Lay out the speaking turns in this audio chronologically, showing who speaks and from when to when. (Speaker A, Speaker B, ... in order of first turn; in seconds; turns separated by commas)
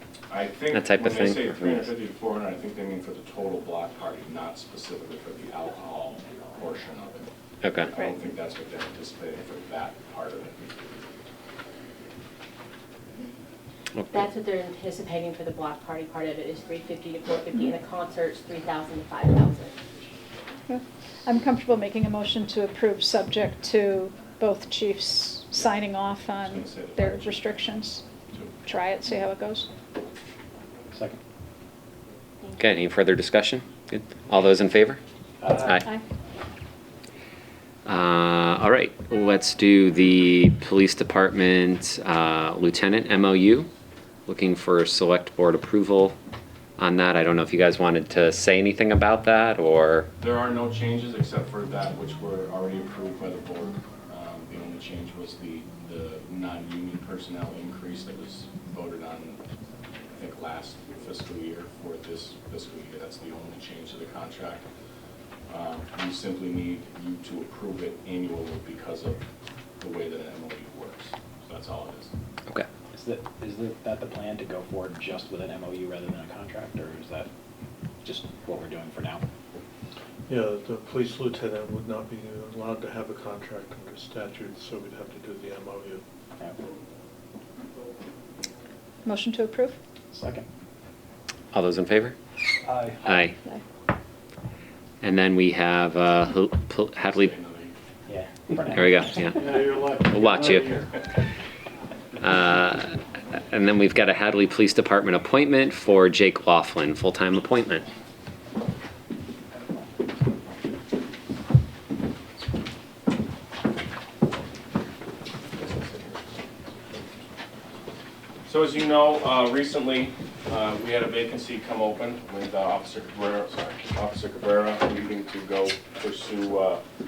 Speaker A: 0.3-7.3, Speaker B: 0.7-1.9, Speaker B: 7.6-7.9, Speaker A: 7.9-10.9, Speaker C: 14.1-19.8, Speaker D: 20.7-28.0, Speaker A: 26.4-27.6, Speaker A: 28.3-28.6, Speaker D: 28.6-29.7, Speaker E: 30.9-31.2, Speaker B: 32.6-35.0, Speaker E: 35.4-35.7, Speaker B: 37.8-43.7, Speaker B: 44.3-46.1, Speaker B: 46.8-50.1, Speaker A: 50.2-59.4, Speaker A: 60.1-64.6, Speaker A: 65.5-69.2, Speaker A: 69.8-72.1, Speaker E: 72.9-77.3, Speaker E: 78.0-79.2, Speaker F: 80.3-86.0, Speaker D: 89.0-89.8, Speaker E: 90.1-90.5, Speaker B: 91.5-92.2, Speaker G: 92.6-93.1, Speaker B: 93.0-93.4, Speaker B: 95.0-97.3, Speaker A: 97.0-97.7, Speaker E: 98.1-99.4, Speaker B: 98.7-100.8, Speaker G: 99.3-100.9, Speaker B: 102.2-107.8, Speaker A: 115.5-116.2, Speaker A: 118.5-126.8